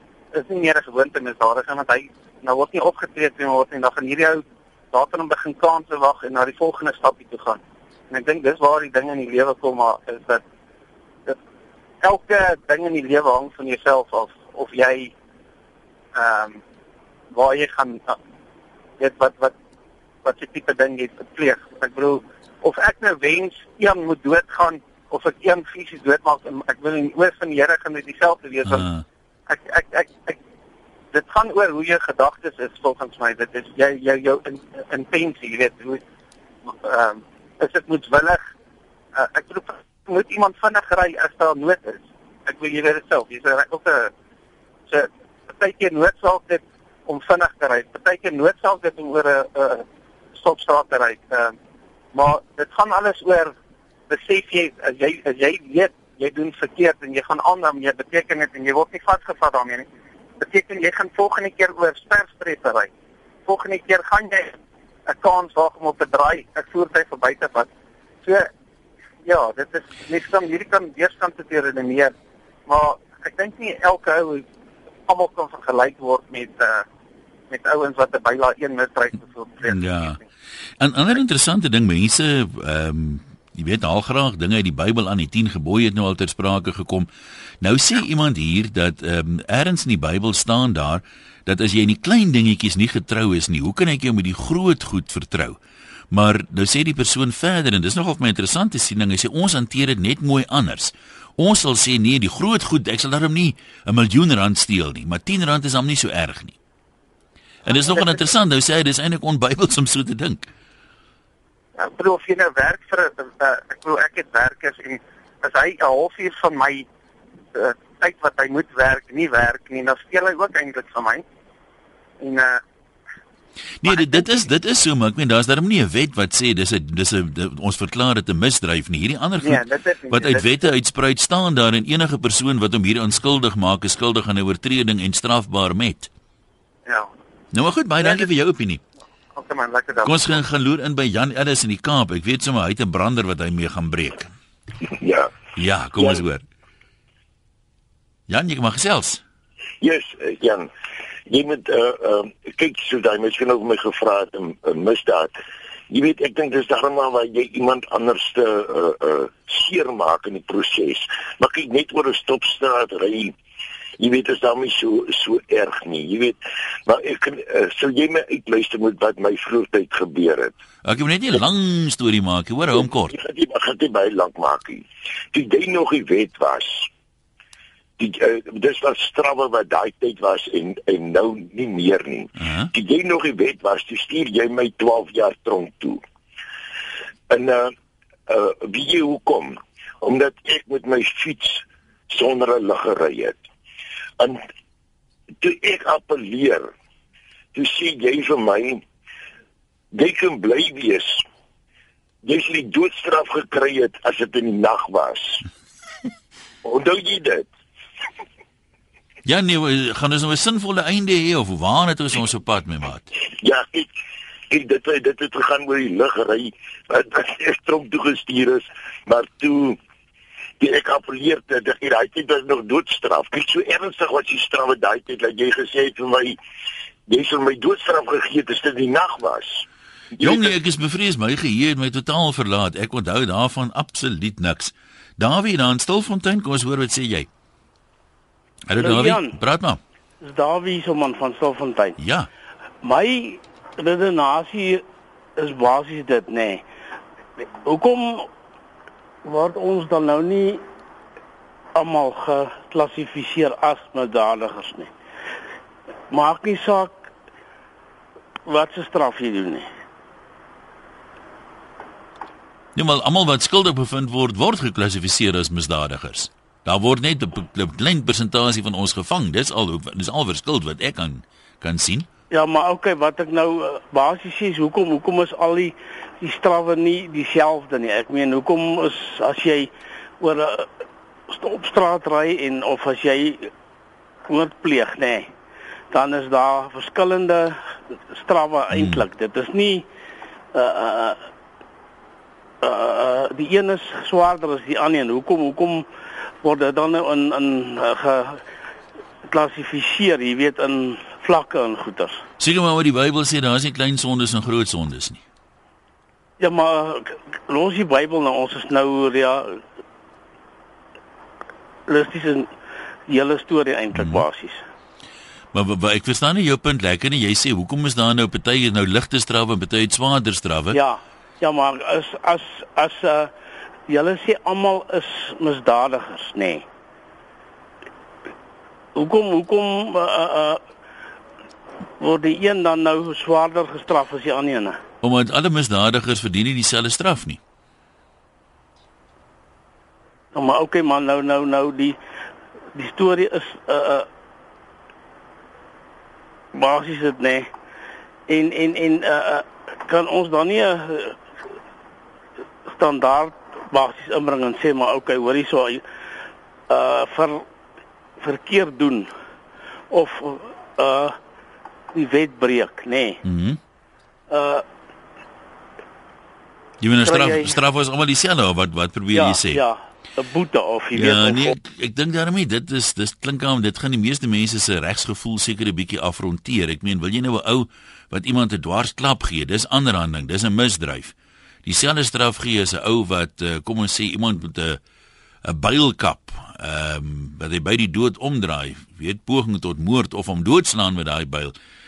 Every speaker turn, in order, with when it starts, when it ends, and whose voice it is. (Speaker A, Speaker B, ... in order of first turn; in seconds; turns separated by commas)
Speaker A: 0.3-10.4, Speaker A: 12.0-15.1, Speaker A: 16.1-16.6, Speaker A: 17.3-18.1, Speaker A: 19.0-19.5, Speaker A: 20.2-28.9, Speaker B: 28.6-29.0, Speaker A: 29.5-30.4, Speaker A: 31.1-36.0, Speaker A: 36.6-38.4, Speaker A: 39.1-44.1, Speaker A: 44.9-49.8, Speaker A: 50.4-51.5, Speaker A: 52.1-53.5, Speaker A: 54.1-59.9, Speaker A: 60.4-62.9, Speaker A: 63.5-67.7, Speaker A: 68.2-68.5, Speaker A: 69.2-72.1, Speaker A: 72.7-74.4, Speaker A: 75.1-76.8, Speaker A: 77.5-80.2, Speaker B: 79.7-80.2, Speaker B: 80.8-87.1, Speaker B: 87.6-95.6, Speaker B: 96.1-106.6, Speaker B: 107.7-110.5, Speaker A: 107.9-108.2, Speaker A: 111.8-116.9, Speaker A: 117.5-121.2, Speaker A: 122.2-122.6, Speaker B: 123.8-136.1, Speaker A: 123.8-124.4, Speaker A: 129.4-130.7, Speaker B: 137.5-138.8, Speaker A: 138.0-138.3, Speaker A: 139.3-140.4, Speaker B: 140.0-144.3, Speaker C: 145.0-145.3, Speaker B: 145.6-146.4, Speaker C: 146.0-146.2, Speaker B: 148.3-149.2, Speaker C: 149.8-150.7, Speaker C: 151.3-155.3, Speaker C: 155.9-163.3, Speaker C: 164.0-170.5, Speaker B: 170.8-173.2, Speaker C: 172.8-176.9, Speaker C: 178.0-186.0, Speaker B: 182.4-182.7, Speaker C: 187.3-187.7, Speaker C: 188.3-193.4, Speaker C: 195.4-196.7, Speaker C: 197.6-198.8, Speaker C: 199.9-201.2, Speaker C: 202.2-205.4, Speaker C: 206.6-207.5, Speaker B: 209.3-213.1, Speaker C: 213.4-213.9, Speaker C: 214.5-219.8, Speaker C: 220.6-226.4, Speaker C: 227.1-229.6, Speaker C: 230.2-230.5, Speaker B: 230.2-237.3, Speaker B: 238.7-239.8, Speaker D: 238.8-239.4, Speaker D: 240.2-242.0, Speaker B: 242.0-242.3, Speaker D: 242.8-244.8, Speaker D: 245.4-246.6, Speaker D: 247.6-248.3, Speaker D: 249.2-250.6, Speaker D: 251.8-254.9, Speaker D: 256.1-257.1, Speaker D: 258.4-259.7, Speaker B: 262.8-272.1, Speaker D: 272.3-280.7, Speaker D: 281.3-283.5, Speaker D: 284.3-285.3, Speaker D: 285.9-287.6, Speaker D: 288.1-289.9, Speaker B: 288.7-289.1, Speaker D: 290.5-291.3, Speaker D: 292.6-295.9, Speaker D: 296.4-298.4, Speaker D: 299.3-302.2, Speaker B: 302.4-305.2, Speaker D: 306.4-309.6, Speaker D: 311.9-312.5, Speaker D: 313.1-314.6, Speaker B: 313.9-314.3, Speaker B: 315.5-320.8, Speaker D: 320.7-323.3, Speaker D: 323.9-326.6, Speaker D: 328.9-330.6, Speaker D: 332.0-334.8, Speaker B: 335.0-337.4, Speaker D: 340.3-342.0, Speaker D: 342.7-344.1, Speaker D: 346.5-347.5, Speaker D: 348.3-351.2, Speaker D: 352.7-355.8, Speaker D: 356.7-357.4, Speaker D: 358.2-359.1, Speaker D: 359.9-361.1, Speaker D: 361.9-363.2, Speaker B: 363.2-363.6, Speaker D: 364.3-364.6, Speaker B: 366.8-369.6, Speaker D: 367.1-367.6, Speaker D: 369.1-371.6, Speaker B: 370.9-381.1, Speaker B: 381.6-384.8, Speaker B: 385.4-391.5